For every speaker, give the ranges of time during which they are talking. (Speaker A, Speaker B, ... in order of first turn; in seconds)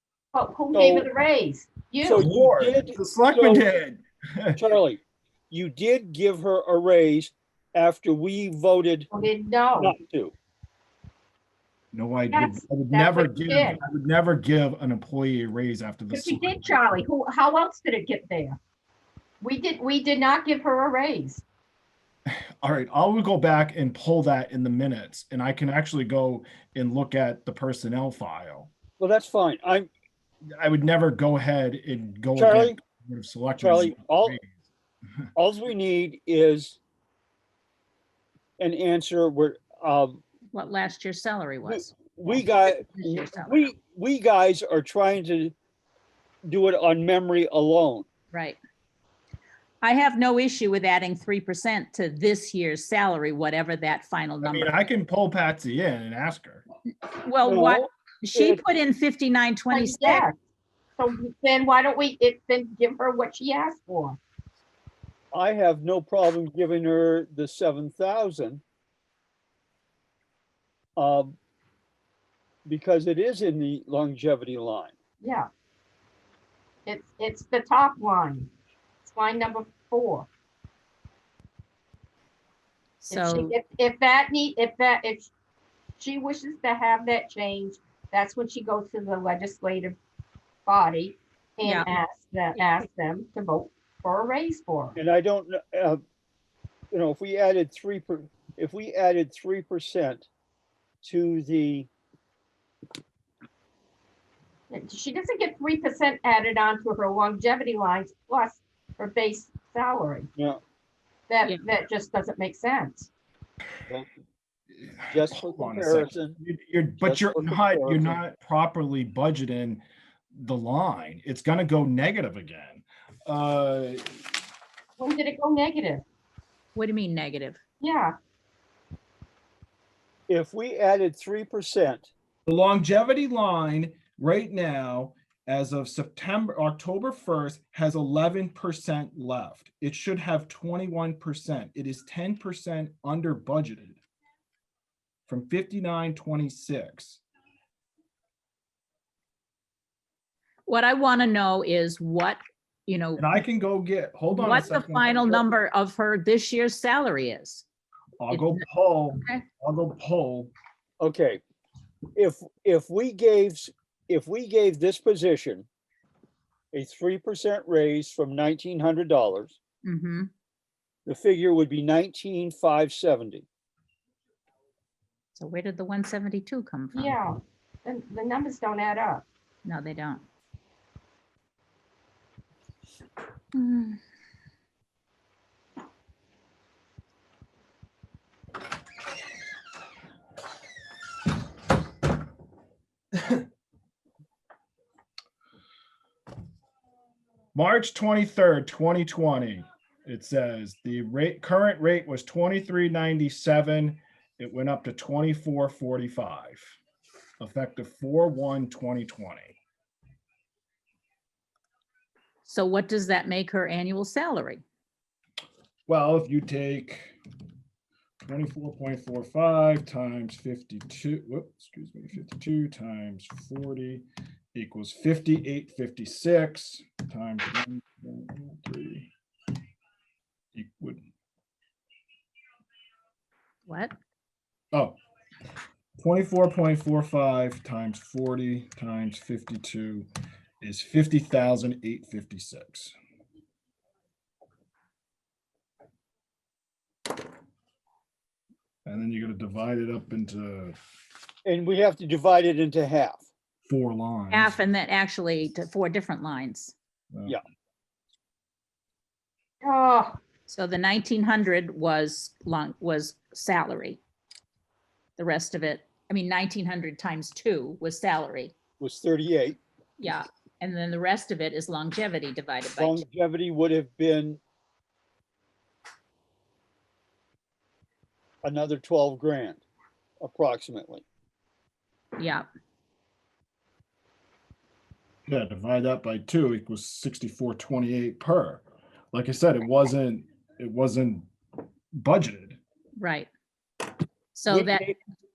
Speaker A: 0.3-2.2, 9.1-9.9, 12.3-13.8, 16.1-18.6, 19.4-21.4, 59.7-60.3, 61.0-64.2, 75.2-75.5, 76.8-78.5, 79.0-80.3, 83.1-85.3, 86.0-90.0, 90.7-95.0, 104.7-110.3, 111.3-113.1, 125.0-126.0, 127.8-128.1, 176.9-179.2, 259.6-260.2
Speaker B: 0.7-1.1, 2.0-3.7, 4.5-9.1, 9.8-10.3, 29.0-29.9, 32.3-32.8, 33.6-34.4, 35.4-36.8, 38.6-40.2, 41.6-45.5, 46.4-48.1, 57.4-58.6, 65.3-68.6, 71.0-71.3, 72.7-74.9, 95.0-96.0, 96.9-100.2, 101.0-101.9, 115.1-116.4, 117.0-118.2, 130.3-132.1, 161.0-161.4, 162.1-165.7, 166.7-169.6, 171.1-173.4, 251.4-253.2, 268.8-270.1, 272.7-274.4, 278.4-279.6, 280.2-281.0, 294.5-295.0
Speaker C: 2.2-4.6, 11.9-16.8, 22.6-28.7, 30.6-34.5, 54.4-56.6, 114.9-124.1, 132.4-144.0, 145.3-147.2, 153.2-155.4, 158.2-160.5, 197.5-206.8, 207.4-209.5, 215.9-217.1, 218.2-229.1, 230.5-231.0, 236.0-240.1, 240.6-242.9, 248.8-250.8, 253.7-254.6, 285.3-291.3, 291.9-292.6
Speaker D: 40.5-43.6, 48.3-48.6, 49.8-54.7, 57.0-60.2, 83.0-83.5, 91.6-91.9, 126.7-127.6, 150.7-153.4, 154.3-157.6, 158.3-158.6, 159.2-159.4, 169.8-170.3, 175.3-177.2, 179.6-180.2, 183.5-184.0, 212.4-214.6, 233.7-233.9, 254.3-256.7, 260.5-264.0, 265.2-268.5, 270.0-273.0, 282.2-282.4, 293.0-293.3, 294.3-294.8